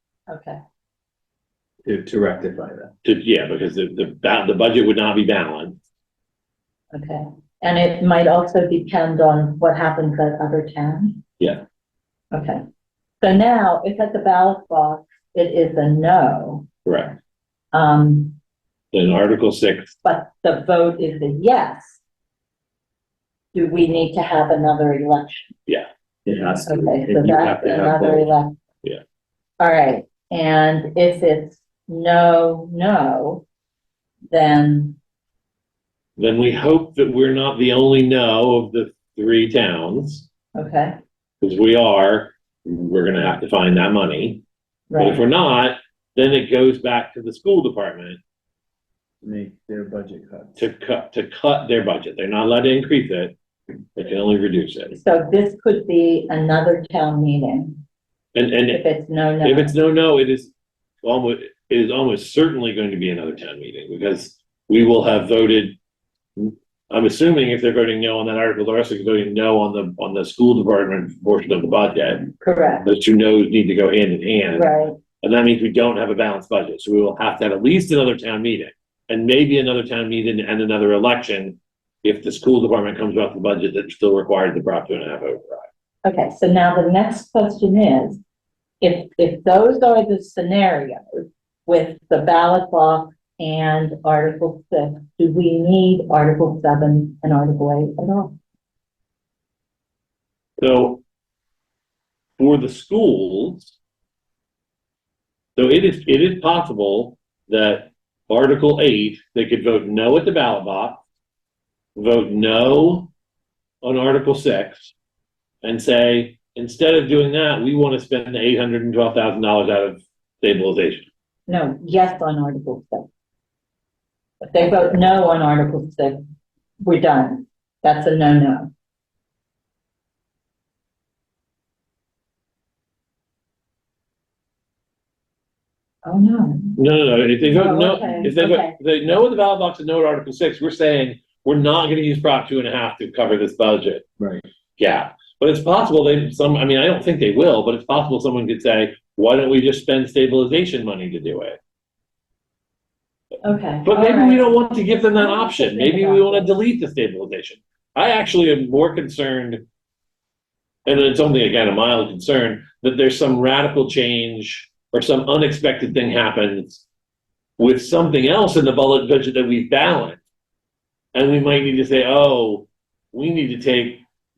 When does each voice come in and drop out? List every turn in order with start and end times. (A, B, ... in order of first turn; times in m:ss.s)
0:00.3-0:00.6 A
0:01.8-0:02.9 B
0:03.0-0:05.8 C
0:06.9-0:11.2 A
0:12.3-0:12.6 A
0:13.2-0:16.7 A
0:16.8-0:17.2 C
0:17.7-0:18.4 A
0:18.9-0:20.0 C
0:20.0-0:22.0 A
0:23.6-0:25.5 A
0:26.2-0:28.3 B
0:26.6-0:28.5 A
0:29.6-0:33.4 A
0:34.3-0:35.0 A
0:36.2-0:40.3 C
0:40.6-0:41.0 A
0:41.4-0:44.4 C
0:44.9-0:45.2 A
0:45.0-0:48.2 C
0:49.2-0:50.6 B
0:50.6-0:53.3 C
0:54.0-0:54.9 C
0:54.9-0:57.8 A
0:58.4-0:58.8 C
0:58.7-0:59.7 A
0:59.4-1:00.5 C
1:01.0-1:05.8 C
1:06.4-1:12.3 C
1:12.4-1:12.9 A
1:12.8-1:25.7 C
1:14.5-1:15.0 A
1:26.0-1:28.2 A
1:28.8-1:38.4 A
1:40.6-1:41.0 C
1:42.4-1:43.8 C
1:45.6-1:51.0 C
1:52.0-1:53.1 C
1:53.8-1:54.9 C
1:55.6-2:01.1 C
2:01.5-2:03.1 A
2:04.4-2:06.2 A
2:06.8-2:08.7 A
2:16.1-2:16.8 A
2:16.8-2:24.1 C
2:17.4-2:18.8 A
2:24.2-2:24.4 B
2:24.8-2:31.6 C
2:33.4-2:34.6 A
2:33.9-2:39.6 C
2:35.1-2:36.5 A
2:40.9-2:46.8 C
2:47.6-2:50.2 C
2:51.2-2:54.0 C